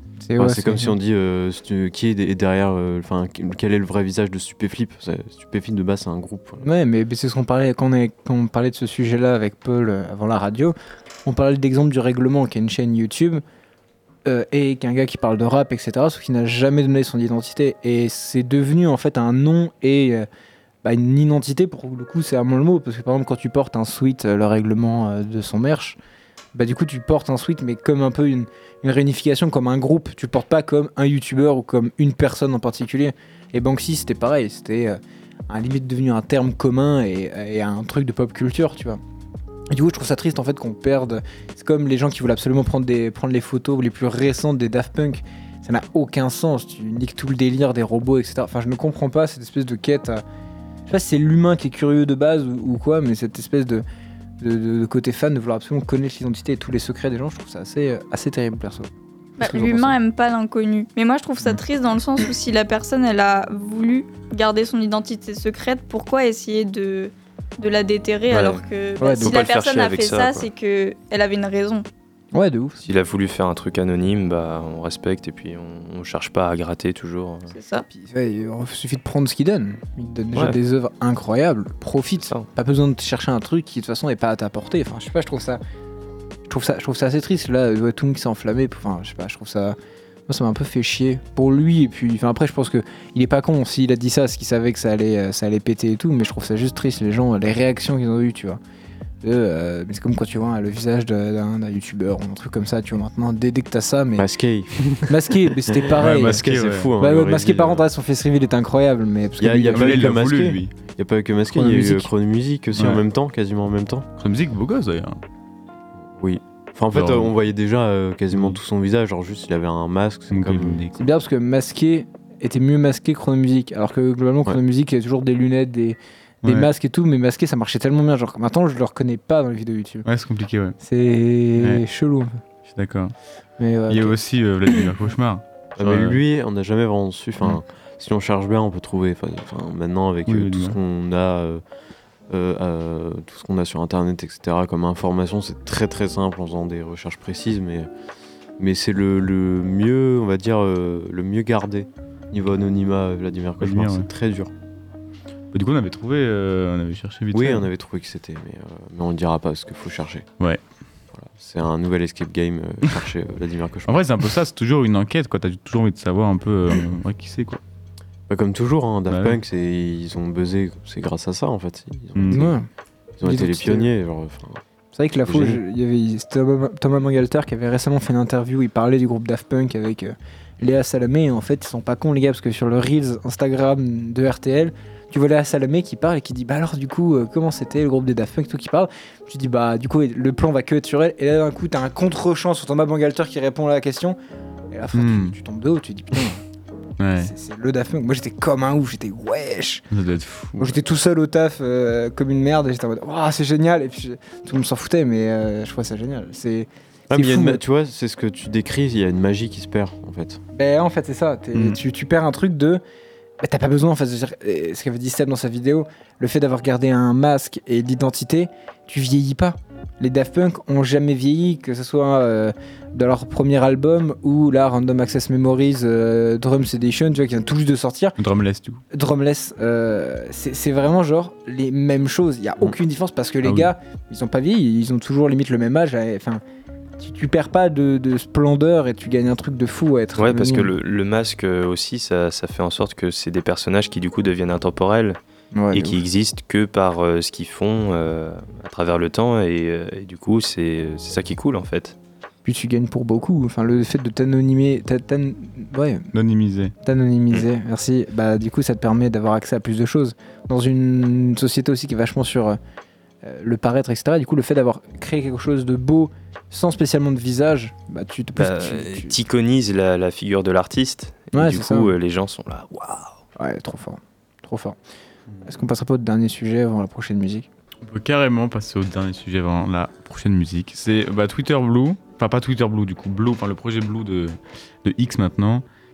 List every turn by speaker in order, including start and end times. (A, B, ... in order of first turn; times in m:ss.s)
0:00.2-0:00.9 A
0:00.4-0:06.6 B
0:06.6-0:10.7 A
0:11.2-0:13.4 A
0:14.2-0:20.3 A
0:20.8-0:26.0 A
0:26.5-0:39.0 A
0:39.7-0:50.2 A
0:50.9-0:53.8 A
0:54.4-1:00.0 A
0:59.4-1:11.8 C
1:08.3-1:08.6 D
1:09.0-1:09.4 A
1:09.2-1:10.5 D
1:12.3-1:12.8 A
1:12.8-1:17.5 D
1:17.5-1:17.8 C
1:17.9-1:25.6 A
1:26.5-1:29.8 A
1:30.3-1:38.6 A
1:39.2-1:44.2 A
1:44.2-1:45.1 B
1:45.0-1:46.4 A
1:45.9-1:47.9 B
1:45.9-1:46.9 E
1:47.0-1:50.1 A
1:49.4-1:54.1 B
1:49.7-1:50.7 E
1:51.5-1:52.1 A
1:52.7-1:53.0 E
1:54.2-1:55.2 E
1:56.2-2:00.8 B
1:56.9-1:57.3 E
1:58.3-1:58.6 E
2:00.3-2:01.1 E
2:01.0-2:10.0 A
2:06.4-2:06.7 E
2:10.0-2:10.8 E
2:10.8-2:12.4 A
2:11.6-2:11.8 E
2:12.7-2:13.1 E
2:13.6-2:14.2 A
2:13.9-2:16.2 E
2:15.8-2:21.6 B
2:20.2-2:20.8 E
2:22.3-2:27.9 B
2:28.6-2:34.5 B
2:33.6-2:34.1 E
2:35.5-2:37.7 E
2:37.3-2:40.3 B
2:41.1-2:44.0 B
2:43.8-2:47.6 E
2:48.3-2:52.6 B
2:49.1-2:49.4 E
2:52.1-2:52.5 E
2:52.3-2:52.6 A
2:53.2-2:54.6 B
2:53.2-2:53.9 A
2:54.9-3:14.2 A
2:55.2-2:55.6 B
3:14.7-3:16.4 A
3:14.9-3:15.4 E
3:17.0-3:17.3 E
3:17.2-3:19.8 A
3:19.9-3:20.7 E
3:20.6-3:27.6 A
3:27.1-3:30.4 B
3:30.5-3:32.8 A
3:31.5-3:31.8 E
3:33.4-3:48.2 A
3:48.2-3:48.8 E
3:48.9-3:56.4 A
3:53.4-3:53.7 E
3:57.0-4:00.7 A
4:00.2-4:05.2 D
4:05.5-4:06.0 A
4:05.7-4:12.0 D
4:12.4-4:16.1 A
4:16.1-4:16.7 E
4:16.8-4:22.6 A
4:23.2-4:29.2 A
4:28.4-4:33.1 D
4:31.3-4:31.9 A
4:33.4-4:34.8 A
4:35.4-4:37.5 A
4:37.8-4:45.6 E